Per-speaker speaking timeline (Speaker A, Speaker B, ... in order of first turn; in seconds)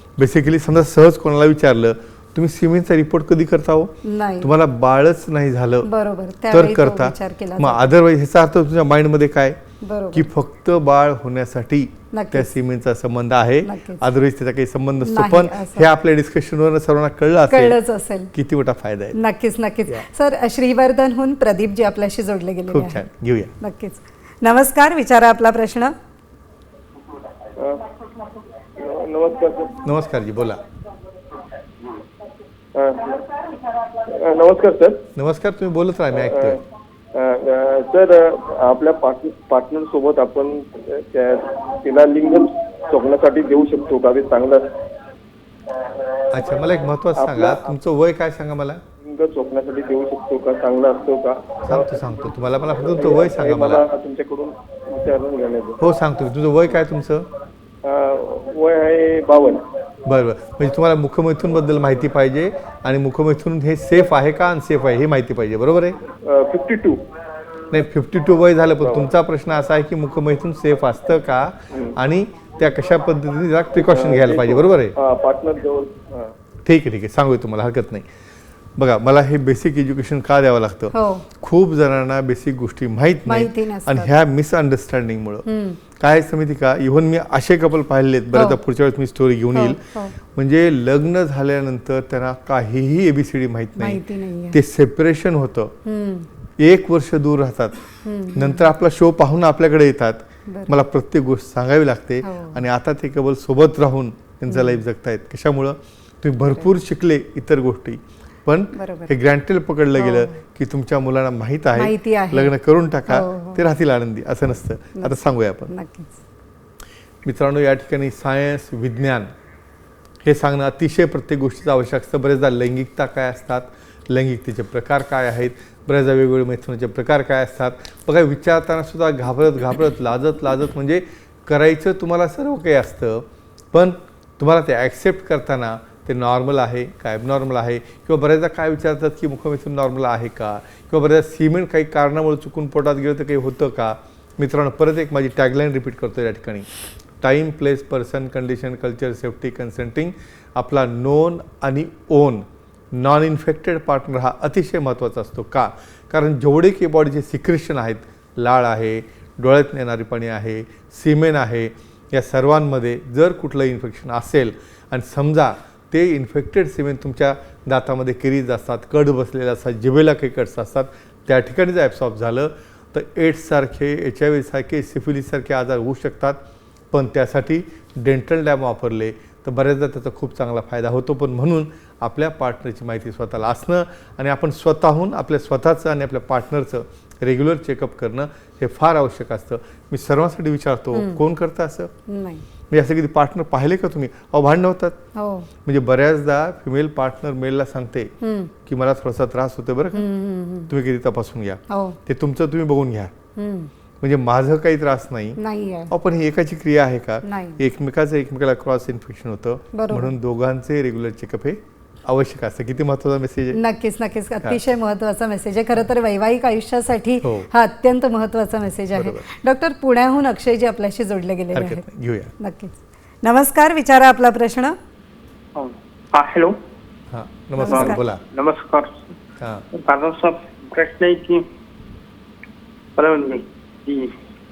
Speaker A: 0.2-5.9, 6.5-9.6, 10.1-17.8, 18.3-19.2, 22.7-23.5, 29.8-30.6, 35.1-36.6, 46.3-48.8, 51.6-53.9, 55.8-57.3, 60.1-66.0, 67.7-75.0, 76.7-78.1, 78.8-95.8, 96.6-97.8, 98.3-115.7, 117.2-119.3, 120.2-146.7, 147.2-176.4, 176.9-191.9, 192.7-195.0, 195.7-198.1, 198.7-200.1, 200.7-203.1, 204.0-213.6, 217.2-217.5, 218.9-219.2, 221.5-222.3, 227.1-228.2
Speaker B: 4.0-4.5, 5.8-7.9, 9.8-10.2, 12.1-12.5, 13.6-14.0, 15.1-15.9, 17.5-18.3, 19.1-23.0, 23.6-25.9, 80.9-81.2, 83.3-84.1, 85.5-85.8, 89.5-90.1, 93.8-94.6, 95.8-96.3, 98.0-98.7, 100.5-100.8, 102.2-102.6, 104.5-104.8, 108.7-109.1, 110.0-110.4, 111.8-112.5, 113.1-113.6, 115.0-116.2, 190.9-191.2, 192.1-192.4, 195.2-195.5, 198.2-198.5, 199.9-200.7, 201.7-202.0, 203.4-203.7, 205.4-205.9, 207.2-207.6, 209.7-210.1, 213.5-221.8, 222.4-224.8, 227.6-228.0
Speaker C: 27.6-27.9, 28.8-29.8, 32.7-35.1, 36.2-36.6, 37.1-44.8, 47.2-47.7, 49.0-51.8, 52.8-55.8, 57.8-59.6, 66.2-67.0, 73.8-76.3
Speaker D: 225.5-226.6, 227.7-229.2, 229.7-231.4, 233.0-234.1